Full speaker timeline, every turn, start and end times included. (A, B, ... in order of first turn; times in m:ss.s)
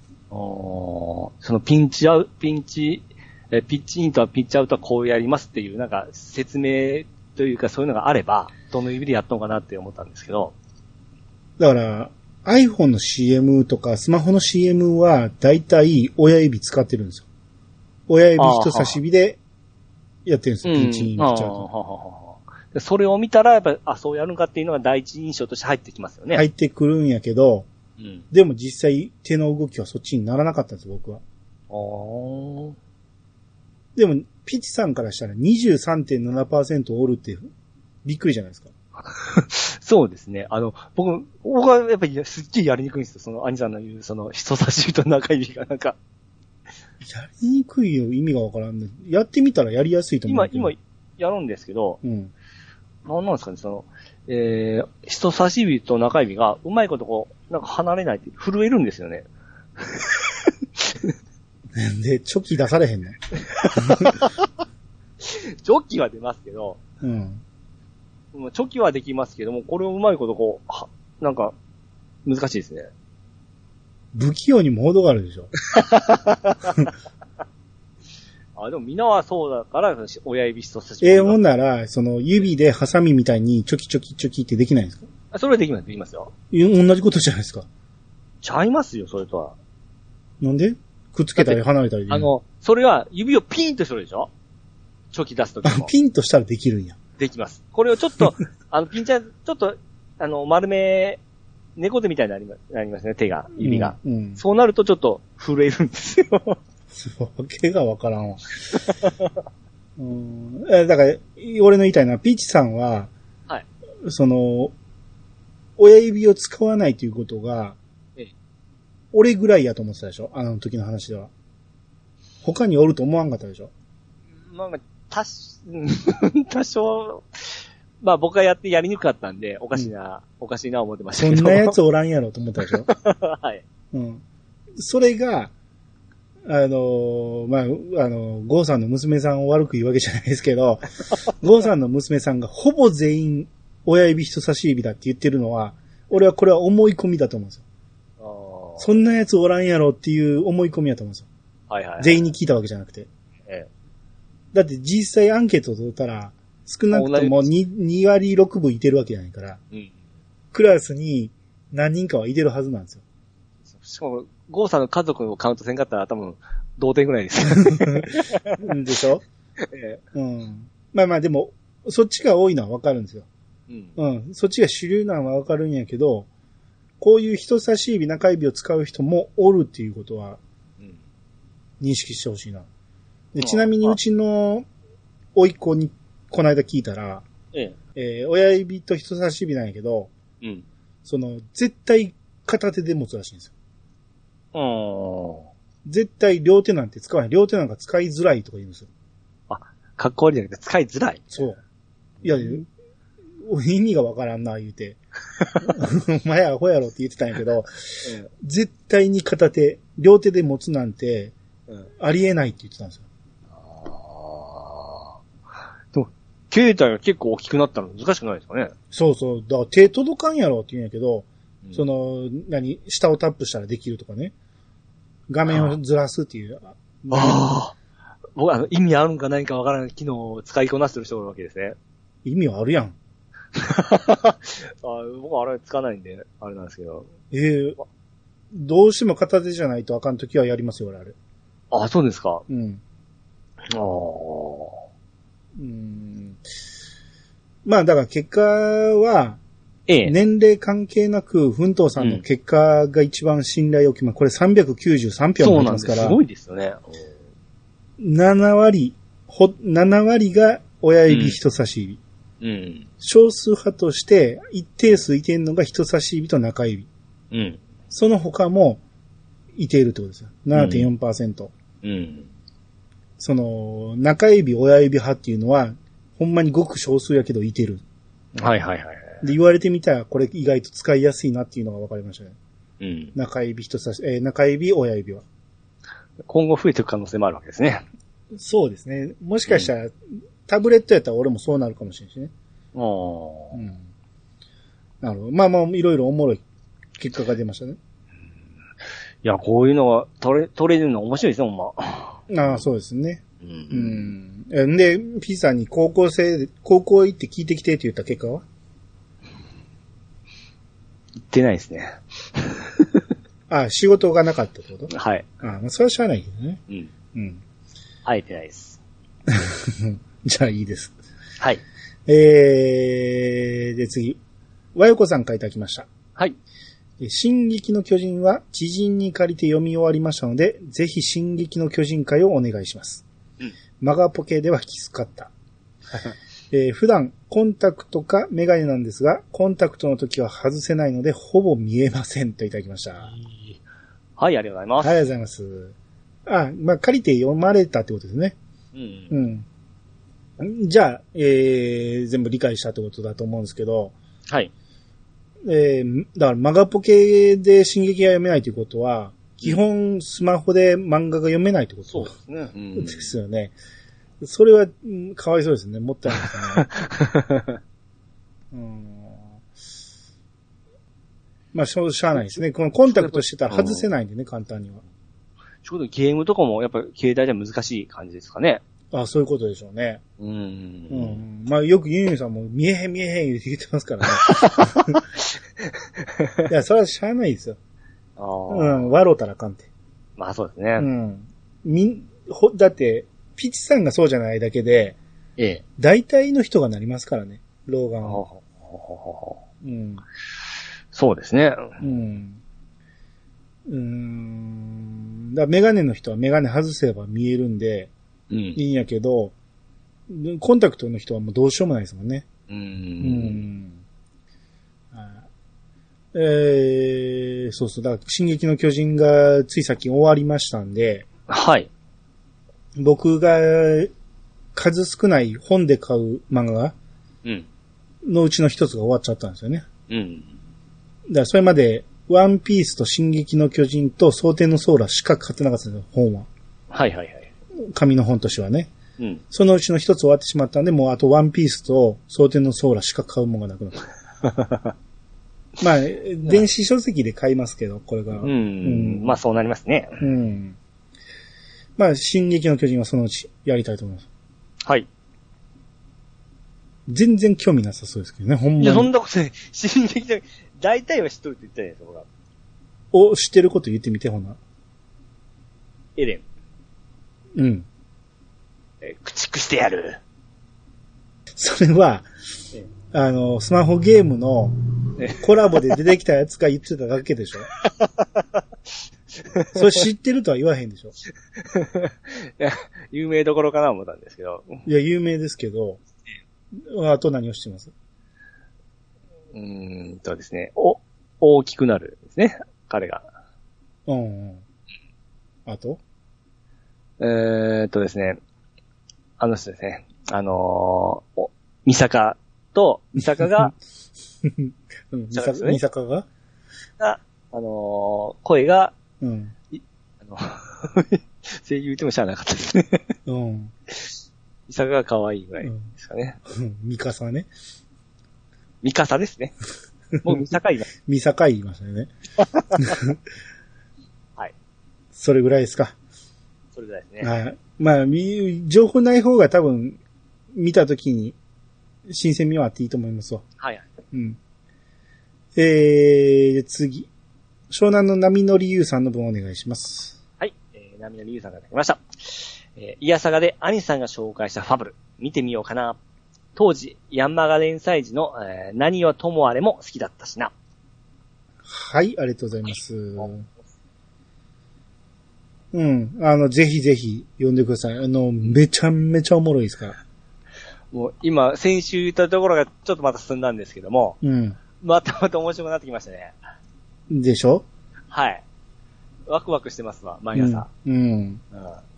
0:00.3-0:10.5 A
0:11.6-0:17.2 B
0:18.1-0:19.4 B
0:18.4-0:19.0 A
0:20.2-0:21.6 B
0:20.6-0:26.4 A
0:26.3-0:27.7 B
0:28.0-0:28.2 A
0:28.3-0:31.2 B
0:31.7-0:32.8 A
0:34.0-0:37.5 B
0:38.0-0:38.7 B
0:39.1-0:46.0 A
0:47.0-0:50.7 B
0:50.3-0:52.0 A
0:52.0-0:52.3 B
0:53.0-0:59.2 A
0:59.8-1:01.1 A
1:01.8-1:03.2 B
1:03.5-1:04.5 A
1:03.7-1:04.2 B
1:05.2-1:06.8 A
1:07.0-1:07.4 B
1:08.3-1:11.5 A
1:12.2-1:12.9 A
1:14.1-1:15.5 B
1:15.6-1:16.9 A
1:18.6-1:21.4 A
1:21.0-1:25.1 B
1:25.3-1:26.3 A
1:26.5-1:27.7 B
1:28.4-1:29.6 A
1:30.4-1:32.3 B
1:31.4-1:34.3 A
1:35.1-1:35.9 A
1:35.6-1:37.0 B
1:37.2-1:41.2 A
1:41.8-1:46.6 A
1:43.6-1:44.4 B
1:46.9-1:48.8 B
1:48.9-1:49.3 A
1:50.0-1:53.1 B
1:54.0-1:54.7 B
1:55.8-1:57.8 B
1:59.1-2:01.3 B
2:02.4-2:03.7 B
2:04.4-2:11.7 A
2:11.2-2:12.9 B
2:12.6-2:13.6 A
2:13.9-2:14.2 B
2:14.8-2:15.5 B
2:16.4-2:27.6 B
2:28.2-2:28.9 A
2:28.8-2:31.3 B
2:31.7-2:32.2 A
2:32.0-2:33.1 B
2:34.5-2:39.6 B
2:36.9-2:37.4 A
2:40.5-2:43.0 B
2:43.7-2:48.6 A
2:47.6-2:49.2 B
2:49.6-2:50.0 A
2:50.1-2:53.2 B
2:53.7-2:54.0 A
2:54.0-2:56.3 B
2:57.0-3:00.4 B
3:01.8-3:02.7 B
3:03.3-3:04.6 B
3:03.4-3:04.0 A
3:05.4-3:07.2 B
3:07.9-3:10.1 B
3:10.4-3:10.6 A
3:11.0-3:13.5 B
3:14.5-3:15.5 A
3:15.8-3:18.9 B
3:19.5-3:21.3 A
3:21.3-3:21.6 B
3:22.2-3:22.6 A
3:22.2-3:22.7 B
3:23.4-3:25.0 B
3:25.6-3:31.3 B
3:32.0-3:33.0 B
3:33.5-3:35.2 A
3:35.9-3:38.7 A
3:38.9-3:44.3 B
3:45.3-3:47.5 B
3:45.5-3:45.8 A
3:47.1-3:47.7 A
3:48.3-3:51.8 A
3:52.2-3:53.0 B
3:53.5-3:57.1 A
3:57.3-3:57.8 B
3:58.5-4:01.1 B
4:01.7-4:02.4 A
4:02.5-4:02.8 B
4:03.7-4:04.8 A
4:05.6-4:06.4 B
4:07.6-4:09.4 B
4:09.9-4:10.1 A
4:10.0-4:16.2 B
4:15.4-4:17.1 A
4:18.0-4:22.0 B
4:21.1-4:21.4 A
4:22.4-4:22.9 A
4:23.0-4:26.9 B
4:27.3-4:27.6 A
4:27.9-4:28.8 B
4:29.5-4:31.5 B
4:30.5-4:30.9 A
4:31.8-4:32.3 A
4:33.2-4:37.8 B
4:38.4-4:39.2 A
4:39.2-4:42.4 B
4:42.8-4:43.1 A
4:43.1-4:45.2 B
4:46.2-4:47.8 A
4:48.4-4:49.9 B
4:50.4-4:52.3 B
4:52.7-4:53.6 A
4:53.5-4:53.8 B
4:55.0-4:56.4 B
4:57.0-4:57.8 B
4:59.2-5:02.6 A
5:02.3-5:08.4 B
5:03.4-5:04.1 A
5:11.3-5:13.1 A
5:13.5-5:16.6 B
5:14.9-5:15.2 A
5:17.1-5:17.4 B
5:18.0-5:18.8 A
5:19.3-5:20.9 B
5:22.1-5:24.2 B
5:24.7-5:25.9 B
5:27.0-5:33.0 B
5:33.8-5:35.3 B
5:36.5-5:43.1 B
5:43.1-5:43.6 A
5:44.2-5:45.0 A
5:44.8-5:45.7 B
5:46.2-5:48.4 B
5:48.7-5:49.1 A
5:49.1-5:49.4 B
5:50.4-5:53.9 B
5:55.4-6:02.1 B
6:01.9-6:03.1 A
6:02.7-6:03.5 B
6:04.2-6:06.7 B
6:06.6-6:07.6 A
6:08.5-6:09.4 B
6:11.5-6:14.8 B
6:12.2-6:13.9 A
6:15.6-6:18.6 A
6:18.9-6:20.0 B
6:20.2-6:21.2 A
6:20.9-6:25.0 B
6:24.2-6:26.5 A
6:26.5-6:27.6 B
6:28.2-6:28.9 A
6:28.5-6:29.7 B
6:30.2-6:30.9 A
6:30.8-6:35.0 B
6:35.4-6:35.6 A
6:35.8-6:38.2 B
6:38.0-6:39.4 A
6:39.6-6:40.0 B
6:40.9-6:41.8 A
6:41.8-6:42.4 B
6:43.7-6:47.9 B
6:48.3-6:48.6 A
6:48.5-6:49.3 B
6:50.1-6:52.2 B
6:52.5-6:53.4 A
6:53.0-6:53.8 B
6:54.9-6:55.2 B
6:56.1-7:01.0 B
7:01.3-7:01.7 A
7:02.8-7:03.9 B
7:04.5-7:06.7 B
7:08.0-7:09.7 B
7:09.9-7:10.3 A
7:11.1-7:16.3 B
7:16.7-7:17.3 A
7:17.7-7:18.7 B
7:19.3-7:23.8 B
7:24.2-7:24.7 A
7:25.6-7:29.1 B
7:28.2-7:30.0 A
7:30.0-7:30.6 B
7:31.8-7:34.0 B
7:36.9-7:38.9 B
7:38.6-7:42.0 A
7:42.9-7:44.4 B
7:46.0-7:46.2 A
7:47.4-7:47.6 B
7:48.8-7:50.0 A
7:51.4-7:52.1 B
7:52.9-7:54.6 B
7:55.0-7:55.2 A
7:55.2-7:57.5 B
7:57.5-7:58.4 A
7:59.2-7:59.8 A
7:59.5-8:00.9 B
8:01.4-8:04.6 A
8:04.6-8:05.8 B
8:06.5-8:07.7 B
8:09.3-8:13.0 A
8:13.9-8:14.4 B
8:15.4-8:15.8 B
8:17.0-8:18.2 A
8:19.2-8:23.5 A
8:23.2-8:23.5 B
8:24.2-8:26.0 B
8:25.1-8:25.6 A
8:26.8-8:28.7 A
8:29.0-8:29.3 B
8:29.5-8:32.9 A
8:33.1-8:33.5 B
8:33.7-8:34.0 A
8:34.5-8:36.2 A
8:35.4-8:35.7 B
8:36.3-8:37.3 B
8:38.6-8:39.3 A
8:40.0-8:40.7 A
8:40.8-8:41.9 B
8:42.4-8:42.7 A
8:42.5-8:43.0 B
8:44.9-8:45.8 B
8:46.5-8:47.1 A
8:47.0-8:49.8 B
8:50.3-8:51.2 B
8:51.9-8:53.2 B
8:53.4-8:53.6 A
8:53.9-8:54.2 B
8:55.4-8:56.9 B
8:57.5-9:00.0 B
9:00.2-9:05.8 A
9:06.3-9:10.3 A
9:11.4-9:13.3 B
9:15.5-9:19.8 B
9:20.7-9:24.0 A
9:24.0-9:24.4 B
9:24.5-9:26.2 A
9:26.9-9:27.4 B
9:27.9-9:28.2 A
9:29.0-9:30.5 A
9:30.1-9:31.2 B
9:31.3-9:31.6 A